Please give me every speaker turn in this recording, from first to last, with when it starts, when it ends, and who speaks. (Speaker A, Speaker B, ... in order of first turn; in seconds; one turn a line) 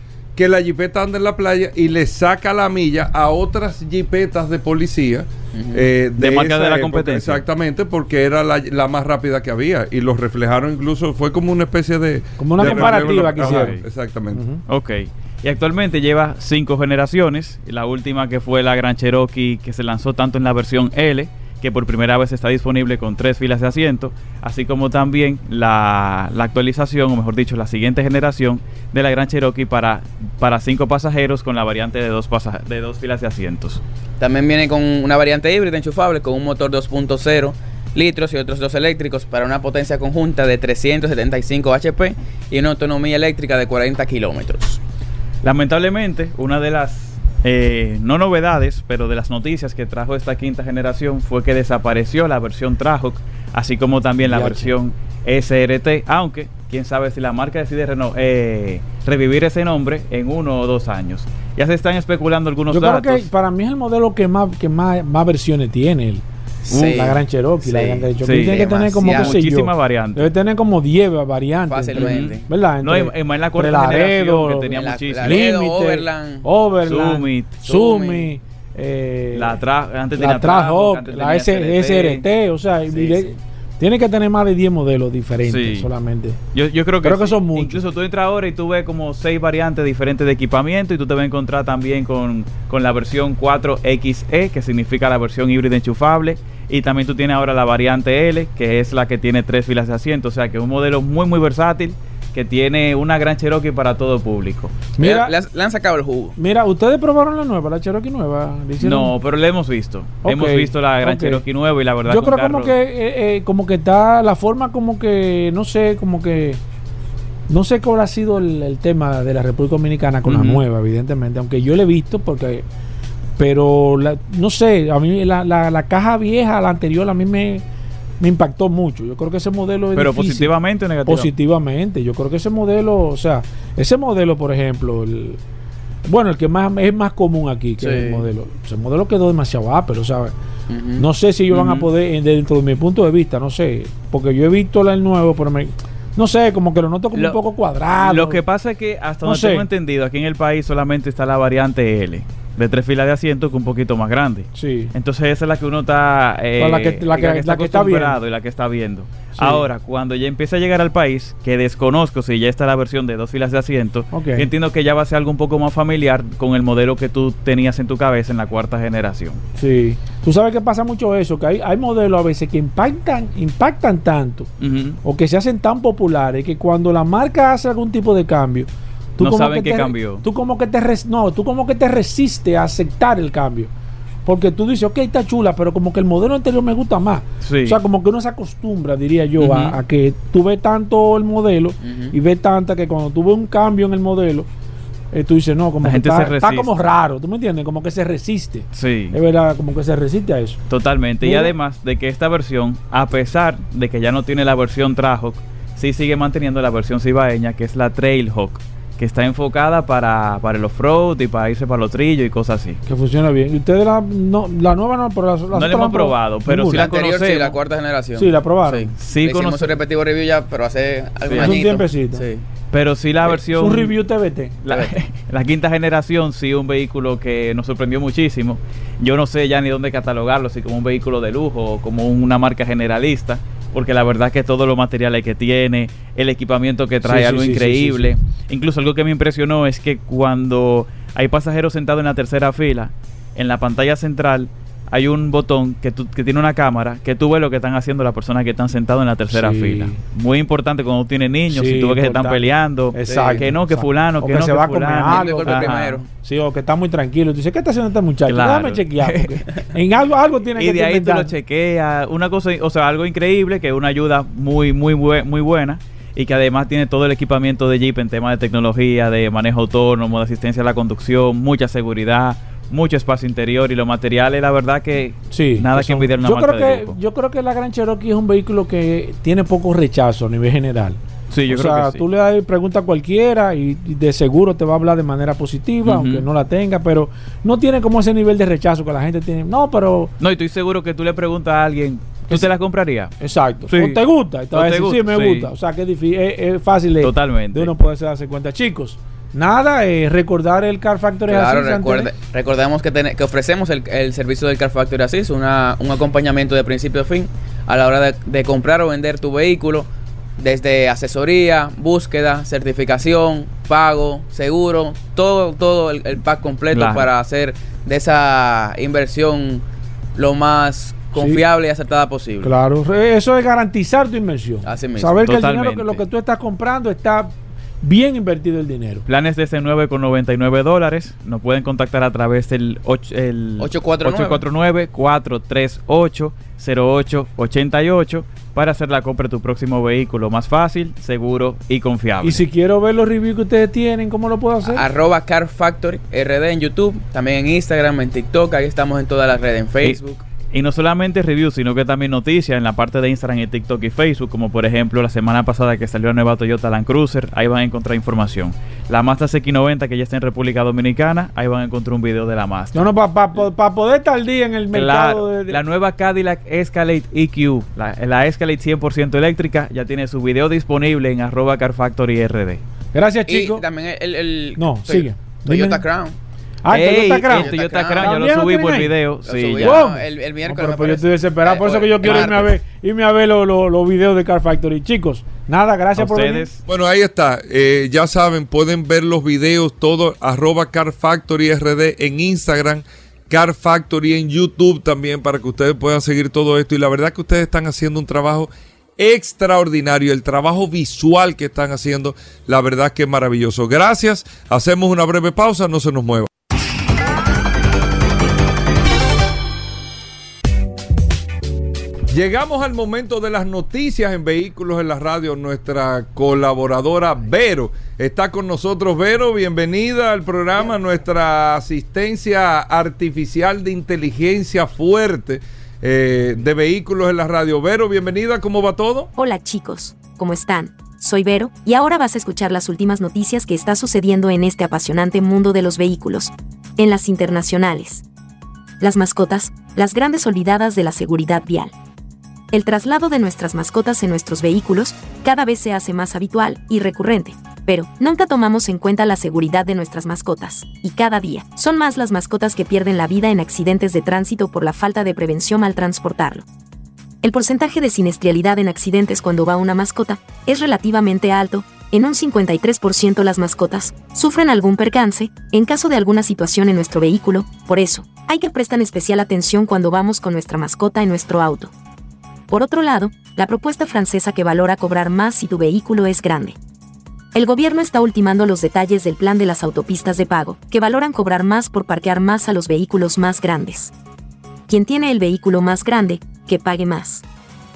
Speaker A: 0.3-14.4
Speaker B: 5.5-5.9
Speaker C: 6.2-7.4
Speaker D: 12.4-13.8
Speaker C: 12.6-13.8
Speaker D: 14.3-14.6
Speaker C: 14.7-33.8
Speaker B: 34.2-44.8
Speaker C: 45.4-63.3
Speaker D: 54.2-54.7
Speaker D: 62.7-79.5
Speaker B: 66.7-69.4
Speaker C: 68.2-70.3
Speaker B: 71.7-72.4
Speaker C: 71.9-75.5
Speaker B: 74.7-76.4
Speaker C: 76.8-77.6
Speaker B: 77.6-78.3
Speaker C: 79.3-82.2
Speaker D: 80.1-86.4
Speaker B: 82.9-83.3
Speaker C: 85.4-85.9
Speaker C: 86.5-104.9
Speaker D: 87.0-87.8
Speaker D: 105.0-105.3
Speaker B: 105.0-106.3
Speaker D: 106.4-109.1
Speaker C: 108.8-112.7
Speaker D: 110.2-111.4
Speaker D: 112.0-116.6
Speaker D: 117.5-122.6
Speaker C: 120.2-120.6
Speaker D: 123.4-127.6
Speaker D: 128.2-130.5
Speaker C: 129.9-131.3
Speaker D: 131.0-135.4
Speaker D: 136.1-140.3
Speaker B: 137.8-138.2
Speaker B: 140.7-141.0
Speaker D: 141.0-148.4
Speaker C: 141.5-141.9
Speaker C: 148.0-169.4
Speaker D: 149.2-149.7
Speaker D: 154.5-154.9
Speaker D: 156.6-158.2
Speaker D: 159.4-159.6
Speaker D: 164.1-164.5
Speaker D: 169.6-174.5
Speaker C: 174.6-175.0
Speaker D: 175.0-183.7
Speaker C: 179.2-180.2
Speaker D: 184.2-194.5
Speaker C: 187.4-187.8
Speaker C: 189.4-189.8
Speaker B: 191.8-192.1
Speaker D: 195.1-200.6
Speaker C: 195.8-196.7
Speaker C: 198.7-199.2
Speaker C: 200.7-212.8
Speaker D: 201.2-201.5
Speaker D: 212.8-217.0
Speaker C: 215.5-217.6
Speaker B: 216.7-222.4
Speaker D: 218.1-218.9
Speaker C: 219.0-219.8
Speaker C: 221.2-221.6
Speaker D: 221.3-222.2
Speaker C: 222.7-223.9
Speaker D: 223.3-224.7
Speaker C: 224.7-256.0
Speaker D: 237.0-238.1
Speaker D: 249.3-250.0
Speaker D: 251.5-261.3
Speaker B: 253.1-253.5
Speaker B: 255.1-256.1
Speaker C: 258.2-258.9
Speaker C: 260.5-277.0
Speaker D: 275.3-281.0
Speaker C: 281.3-282.0
Speaker D: 281.5-290.1
Speaker C: 285.8-286.2
Speaker C: 290.2-295.5
Speaker D: 293.2-302.1
Speaker C: 297.0-297.7
Speaker B: 301.3-309.9
Speaker B: 310.4-319.6
Speaker C: 316.7-317.1
Speaker B: 320.1-322.5
Speaker D: 321.1-321.4
Speaker D: 322.4-329.0
Speaker B: 324.6-325.4
Speaker C: 325.2-326.0
Speaker C: 329.1-342.4
Speaker B: 333.6-334.4
Speaker D: 342.2-344.8
Speaker B: 344.6-350.2
Speaker C: 350.5-362.9
Speaker D: 362.7-365.6
Speaker C: 364.7-372.6
Speaker D: 372.9-373.6
Speaker B: 373.2-376.1
Speaker D: 374.6-375.8
Speaker D: 376.6-378.9
Speaker B: 376.7-378.2
Speaker C: 376.8-379.9
Speaker B: 379.2-382.5
Speaker D: 379.6-386.5
Speaker C: 385.9-386.6
Speaker A: 386.6-406.3
Speaker A: 412.1-429.1
Speaker E: 429.1-438.0
Speaker E: 438.8-441.7
Speaker E: 442.5-456.4
Speaker E: 457.2-471.7
Speaker E: 472.5-476.6
Speaker E: 477.3-483.9
Speaker E: 484.7-487.2